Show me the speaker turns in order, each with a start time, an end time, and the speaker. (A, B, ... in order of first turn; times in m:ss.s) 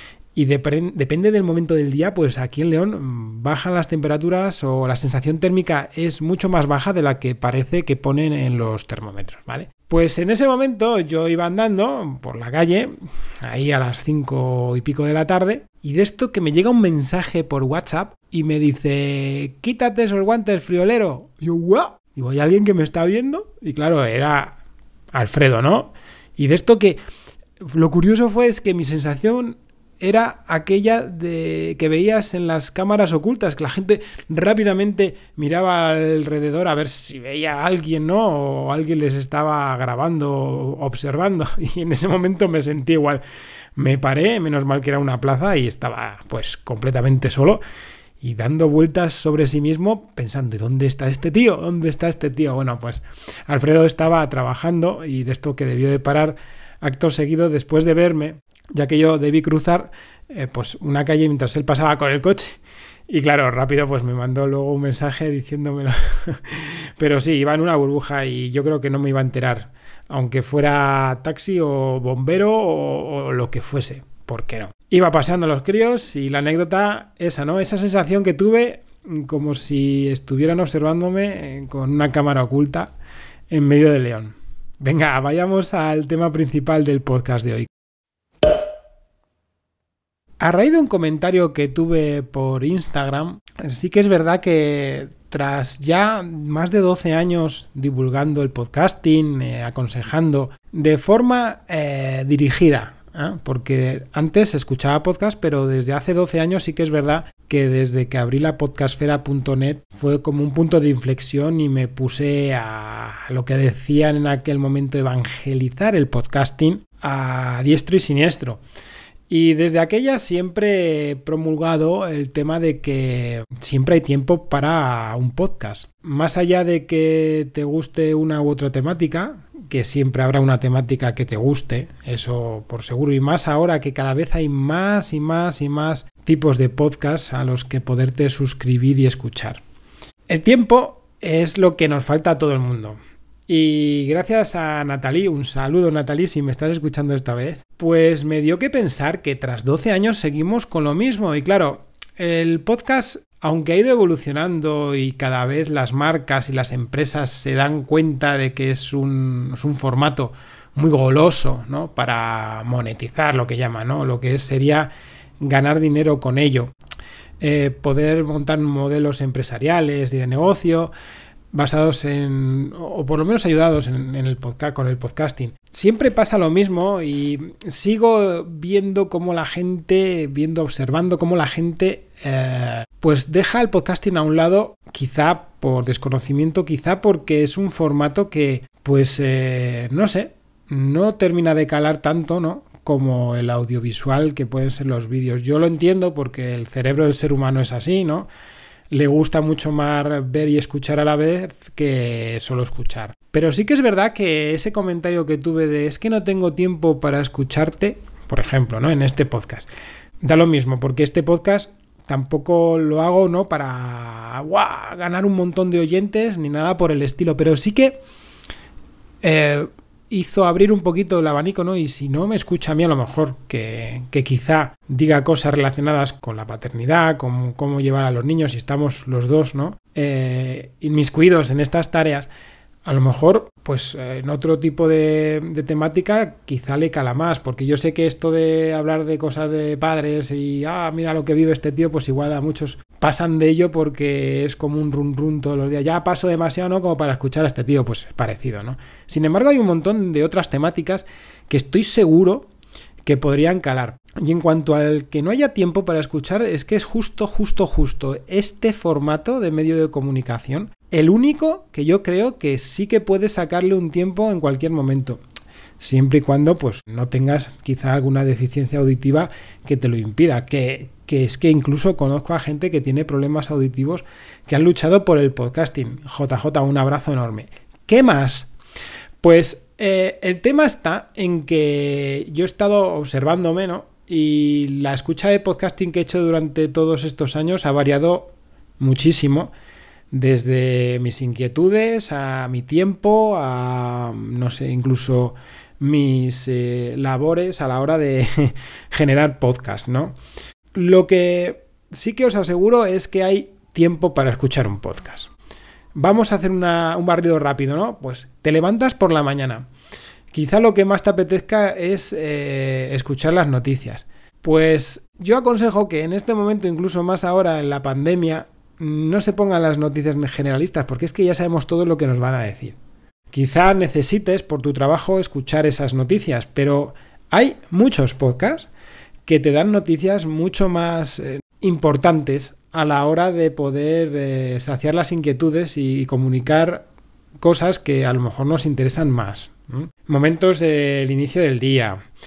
0:00.4-0:24.6 A
0:25.1-0:27.0 A
0:27.6-0:43.2 A
0:43.8-0:47.6 A
0:48.2-1:02.6 A
1:03.1-1:22.9 A
1:23.5-1:27.7 A
1:30.4-1:58.6 A
1:59.3-2:19.6 A
2:20.3-2:46.7 A
2:47.4-2:50.9 A
2:51.5-3:18.3 A
3:18.9-3:29.7 A
3:30.2-3:38.0 A
3:39.2-3:52.3 A
3:52.8-4:12.5 A
4:13.0-4:25.2 A
4:25.8-4:38.5 A
4:39.2-4:49.5 A
4:50.1-5:00.2 A
5:00.7-5:05.3 A
5:06.0-5:09.7 A
5:10.3-5:22.8 A
5:23.3-5:28.7 A
5:29.3-5:36.8 A
5:37.4-5:42.0 A